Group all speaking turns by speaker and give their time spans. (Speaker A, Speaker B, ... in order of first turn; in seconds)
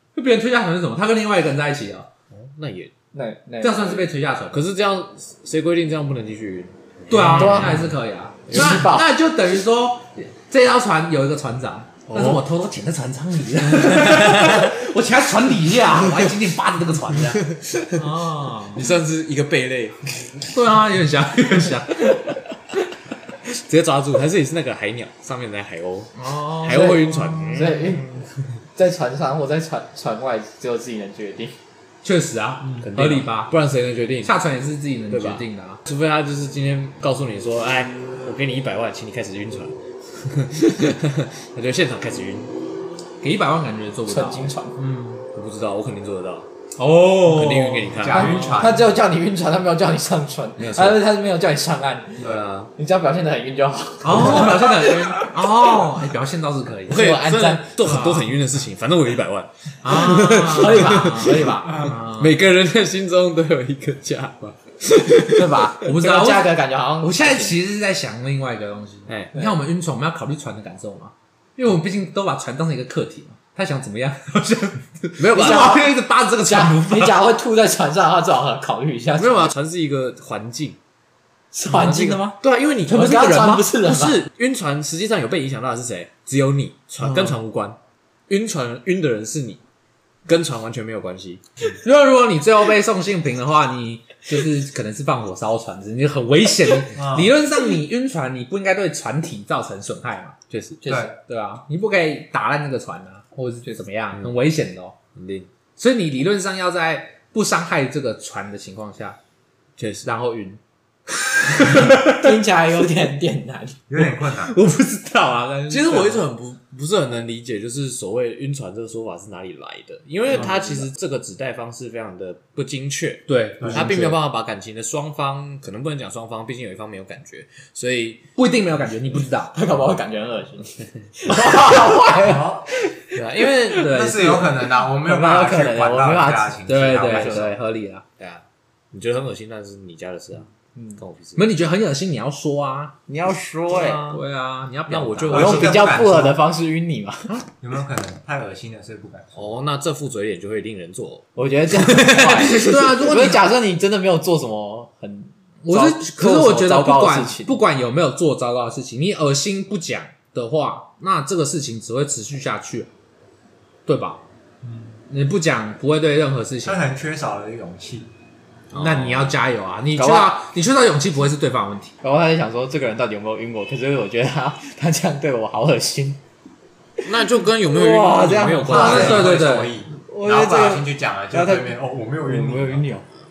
Speaker A: 0.1-2.1, 3.6-4.7, 7.1-18.9, 20.5-22.2, 26.1-27.7, 32.0-33.6, 34.2-35.8, 43.2-45.3, 46.8-48.7, 54.0-57.1, 57.8-58.4, 59.8-62.4, 65.8-77.2, 82.9-83.6, 87.0-87.3, 91.7-100.3, 101.1-105.0, 105.8-109.2, 110.0-110.6, 111.3-112.3, 114.0-116.3, 120.3-120.9, 123.3-124.2, 128.4-129.5, 133.7-134.6, 136.7-138.0, 141.3-143.0, 144.1-145.6, 152.1-153.5, 155.6-162.9, 163.9-164.2, 165.1-166.8, 168.7-171.9, 178.7-179.8
Speaker B: 2.3-2.9, 4.5-8.0, 8.5-8.8, 12.1-12.4, 17.5-18.1, 18.7-20.5, 23.4-28.0, 32.8-34.3, 35.1-42.6, 45.3-46.5, 47.2-48.3, 50.6-51.0, 52.2-52.7, 56.9-65.8, 69.1-69.3, 75.2-75.9, 79.2-80.8, 81.7-87.8, 88.3-89.6, 90.3-91.4, 100.5-100.8, 105.2-105.5, 109.8-110.1, 115.7-128.2, 133.1-133.9, 137.1-137.6, 138.2-141.5, 143.7-144.2, 144.9-145.9, 149.3-152.5, 168.7-169.3, 177.1-179.3
Speaker C: 3.1-4.1, 7.2-7.8, 8.5-9.1, 27.5-28.1, 28.8-31.6, 44.1-44.8, 48.1-55.8, 56.9-57.7, 60.3-62.0, 65.2-67.6, 76.4-79.5, 81.5-84.3, 100.8-101.1, 112.0-113.8, 129.5-133.2, 135.0-136.6, 143.1-144.0, 145.3-147.4, 151.3-157.6, 170.0-170.4, 172.0-176.2, 177.6-179.3, 180.1-183.1
Speaker D: 48.0-48.9, 97.0-97.3, 113.9-114.6, 123.6-123.9, 132.2-132.7, 133.8-137.5, 145.3-146.4, 147.6-149.5, 164.6-165.0, 166.6-168.1, 178.7-182.9